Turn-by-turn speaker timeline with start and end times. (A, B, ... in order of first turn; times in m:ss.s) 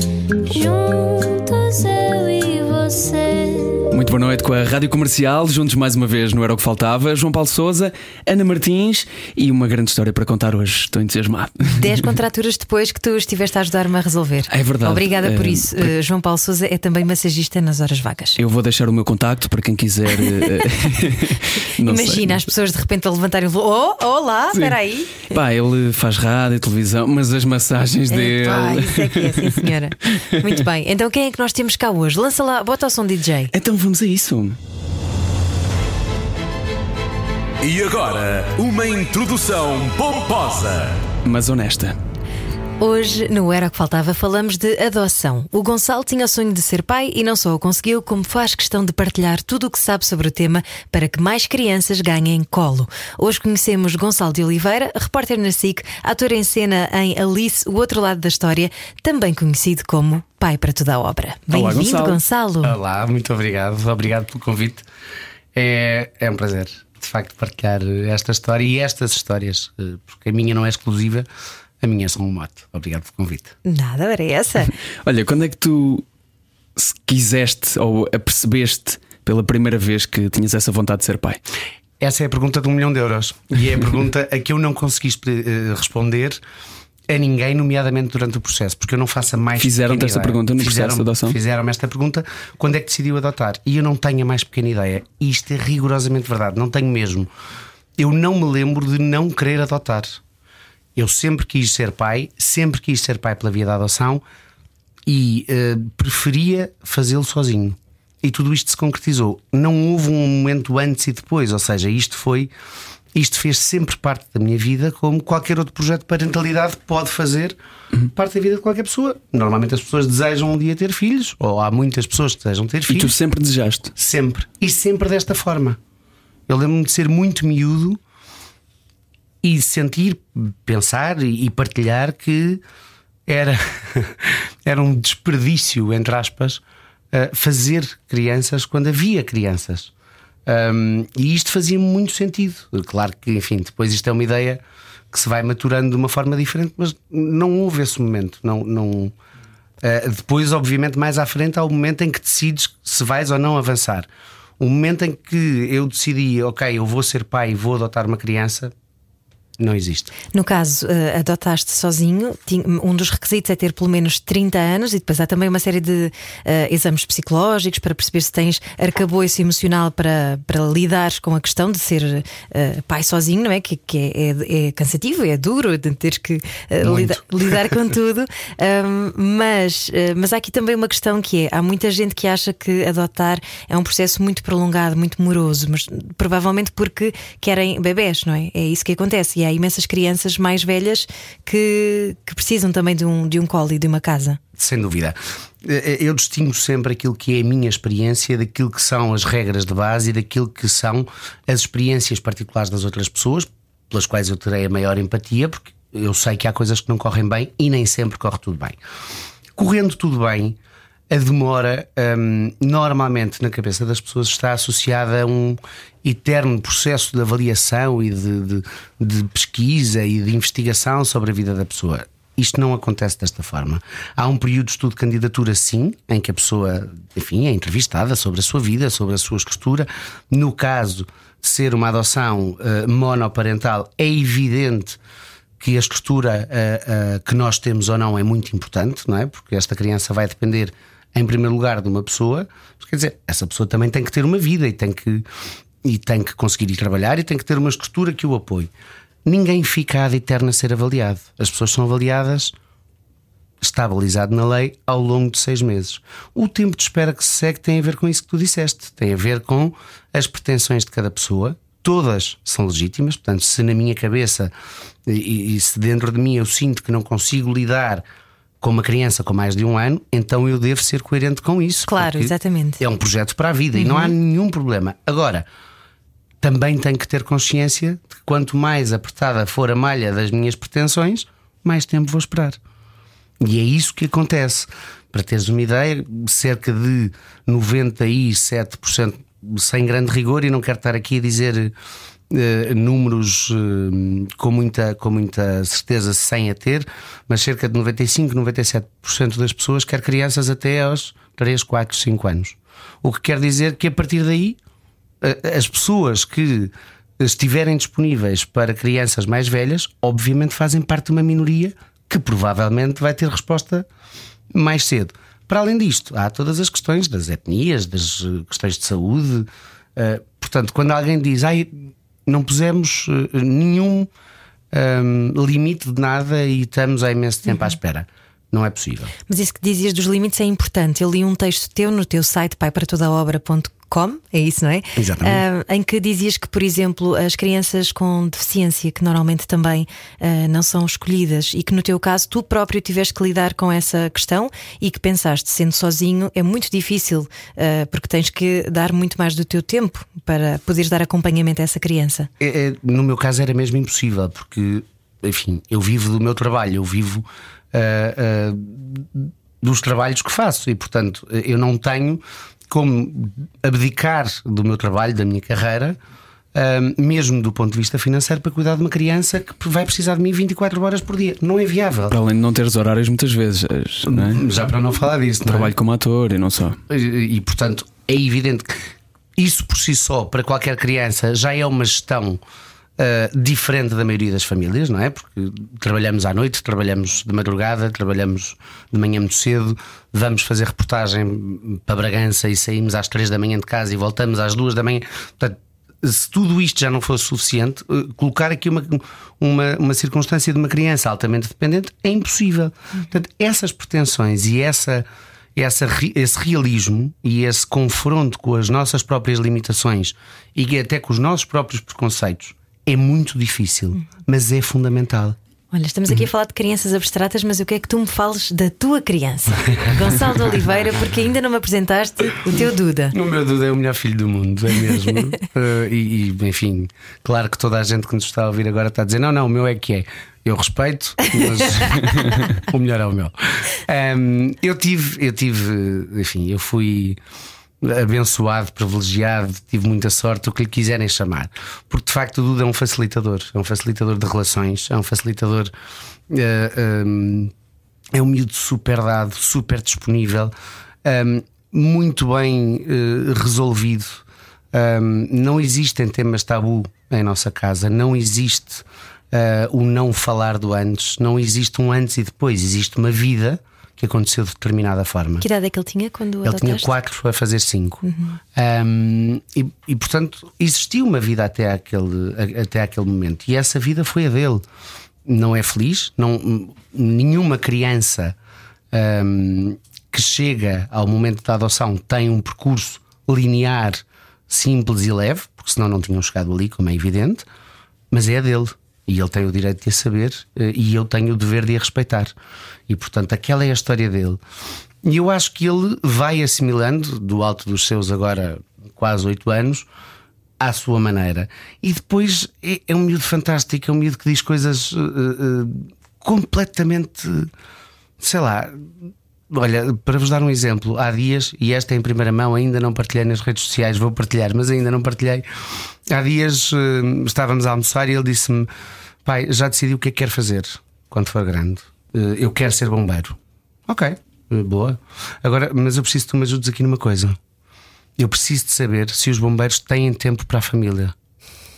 0:00.4-0:03.9 A
0:03.9-0:12.0 B
0:11.6-0:18.4 C
0:14.5-0:15.8 B
0:18.4-0:22.4 B
0:21.8-0:25.3 C
0:24.5-0:30.5 B
0:28.1-0:33.5 C
0:33.5-0:34.6 B
0:37.6-0:41.0 D
0:41.2-0:42.0 B
0:42.8-1:02.8 C
1:01.5-1:02.2 B
1:02.6-1:04.9 E
1:05.5-1:11.3 E
1:11.8-1:13.6 E
1:13.6-1:14.7 C
1:15.0-1:16.0 B
1:16.8-1:21.4 B
1:22.0-1:26.4 E
1:27.1-1:37.3 E
1:29.6-1:31.4 B
1:38.0-1:40.2 E
1:41.0-1:44.2 E
1:45.1-1:52.5 E
1:53.1-1:57.6 E
1:58.1-2:03.2 E
2:02.9-2:03.9 B
2:04.0-2:05.8 E
2:06.5-2:08.0 E
2:09.4-2:12.6 E
2:13.3-2:19.9 E
2:20.4-2:29.1 E
2:29.8-2:34.1 E
2:34.6-2:38.7 E
2:39.6-2:40.1 E
2:40.3-3:14.4 C
2:56.8-2:57.2 E
3:14.6-3:28.8 E
3:29.6-3:30.6 E
3:31.1-3:55.0 E
3:55.6-4:05.2 E
4:05.8-4:08.7 E
4:09.2-4:12.6 E
4:13.6-4:24.5 E
4:25.0-4:28.0 E
4:28.6-4:35.4 E
4:31.9-4:32.8 C
4:33.8-4:34.1 C
4:36.4-4:42.6 E
4:43.4-4:51.7 E
4:52.3-5:04.6 E
5:05.2-5:13.9 E
5:14.5-5:24.1 E
5:24.7-5:29.1 E
5:29.3-5:52.3 C
5:35.0-5:35.4 E
5:52.4-6:06.0 E
6:06.5-6:12.2 E
6:12.1-6:14.4 B
6:14.0-6:15.8 E
6:15.4-6:16.8 B
6:16.9-6:22.4 E
6:23.0-6:45.0 E
6:45.6-6:55.4 E
6:55.7-7:03.1 C
6:59.7-7:00.1 E
7:03.1-7:17.2 E
7:17.8-7:25.7 E
7:26.3-7:27.5 E
7:28.1-7:30.5 E
7:31.0-7:45.4 E
7:45.4-7:46.9 C
7:46.4-7:48.0 E
7:48.0-7:48.4 C
7:48.6-7:54.6 E
7:55.2-7:58.4 E
7:58.9-8:07.4 E
8:08.1-8:12.3 E
8:12.9-8:14.4 E
8:15.0-8:19.9 E
8:20.6-8:27.5 E
8:28.2-8:35.4 E
8:36.1-8:38.7 E
8:39.2-8:47.4 E
8:48.2-8:51.1 E